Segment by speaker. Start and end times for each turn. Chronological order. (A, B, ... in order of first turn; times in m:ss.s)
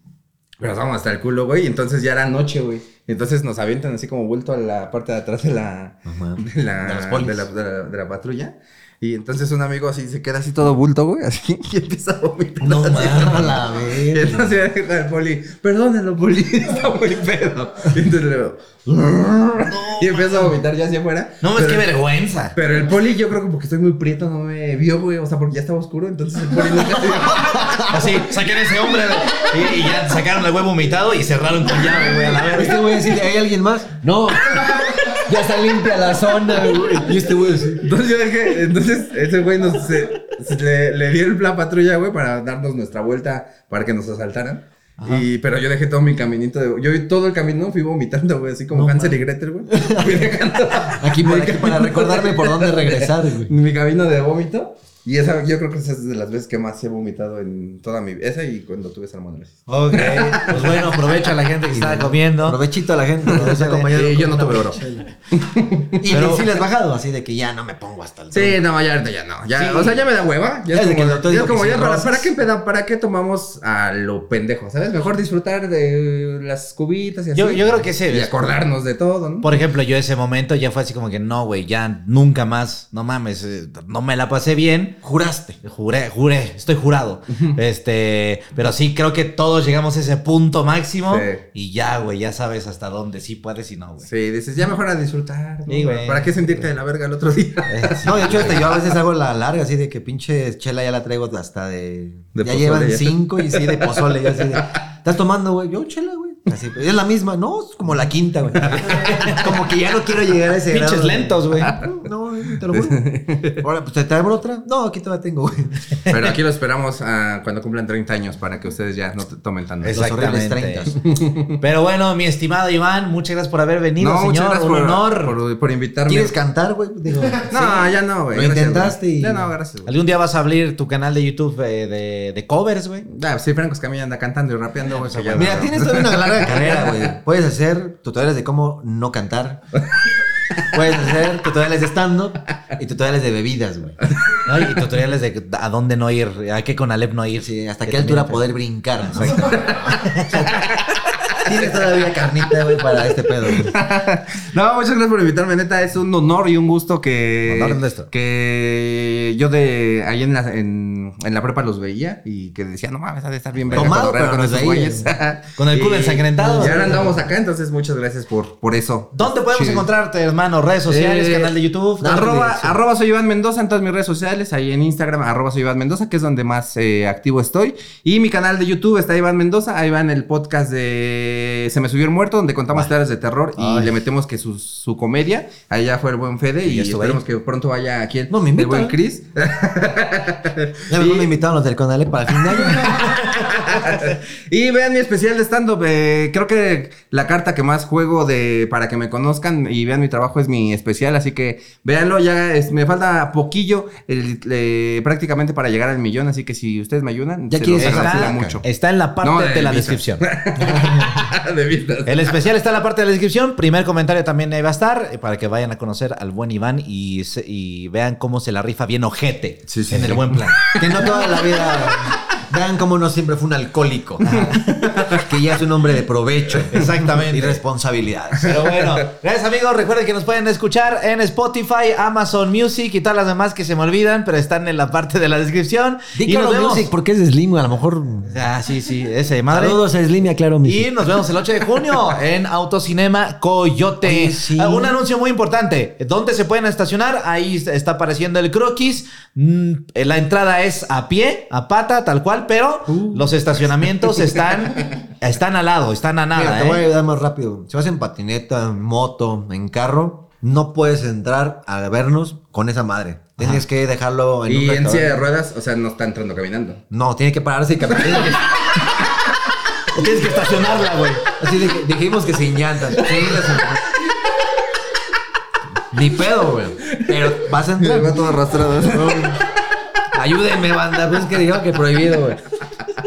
0:00.6-0:21.9 A
0:06.0-0:07.5 B
0:12.6-0:14.6 B
0:12.6-0:13.6 C
0:19.6-0:20.5 C
0:21.4-0:22.5 C
0:22.5-0:28.0 A
0:27.5-0:27.8 B
0:27.8-0:33.0 C
0:32.5-0:37.8 B
0:37.8-1:01.0 A
0:45.0-0:45.3 C
0:48.7-0:53.5 B
0:59.7-1:02.6 C
1:01.7-1:05.1 B
1:03.2-1:03.9 C
1:03.3-1:06.0 A
1:06.0-1:08.6 B
1:06.1-1:06.5 C
1:08.3-1:19.6 A
1:09.6-1:10.0 C
1:10.7-1:12.3 B
1:17.3-1:18.3 C
1:19.4-1:25.0 C
1:25.0-1:25.6 B
1:25.6-1:34.1 C
1:27.3-1:27.6 A
1:31.1-1:31.4 A
1:34.0-1:38.7 A
1:35.7-1:36.6 C
1:37.7-1:38.7 C
1:38.0-1:53.0 B
1:42.4-1:44.7 A
1:48.6-1:49.2 A
1:48.8-1:49.6 C
1:50.7-1:51.8 C
1:51.6-1:51.9 A
1:52.5-1:53.6 A
1:53.6-1:56.0 B
1:56.1-1:56.3 C
1:56.1-2:00.0 A
1:59.8-2:00.9 C
1:59.9-2:01.0 B
2:01.0-2:01.6 A
2:01.6-2:05.4 C
2:04.0-2:06.4 A
2:06.1-2:09.5 B
2:07.5-2:09.9 A
2:09.8-2:13.0 C
2:13.0-2:17.1 A
2:14.8-2:15.7 C
2:15.3-2:19.6 B
2:16.4-2:17.1 C
2:20.7-2:24.0 B
2:24.0-2:24.8 A
2:24.4-2:28.4 C
2:27.4-2:29.6 B
2:29.0-2:30.6 C
2:29.2-2:31.9 A
2:31.4-2:33.7 B
2:33.5-2:49.2 A
2:37.5-2:38.1 C
2:43.6-2:44.0 C
2:43.7-2:45.1 B
2:45.6-2:47.1 C
2:46.4-2:47.2 B
2:49.1-2:52.8 C
2:49.5-2:49.8 B
2:50.9-3:11.3 A
2:52.0-2:52.7 B
3:03.6-3:04.0 B
3:06.6-3:07.2 C
3:08.3-3:09.0 B
3:10.9-3:13.9 B
3:12.5-3:28.6 A
3:27.5-3:28.6 B
3:27.8-3:30.2 C
3:29.2-3:32.4 A
3:30.6-3:31.3 B
3:32.0-3:41.1 C
3:39.7-3:41.3 A
3:40.0-3:40.2 B
3:40.7-3:48.6 B
3:44.2-3:44.9 C
3:44.3-3:45.3 A
3:46.7-3:47.6 C
3:48.4-3:49.0 A
3:48.4-3:56.9 C
3:56.1-3:58.4 B
3:58.2-3:59.8 C
3:59.5-4:00.9 B
4:00.6-4:16.8 C
4:04.0-4:04.9 B
4:12.9-4:13.4 A
4:14.0-4:14.3 A
4:16.3-4:25.2 B
4:23.4-4:23.6 C
4:24.5-4:26.8 A
4:26.9-4:28.7 B
4:29.9-4:31.3 C
4:31.4-4:33.8 B
4:33.1-4:33.6 A
4:35.9-4:38.2 B
4:36.9-4:39.4 A
4:38.9-4:39.4 B
4:40.1-4:42.4 B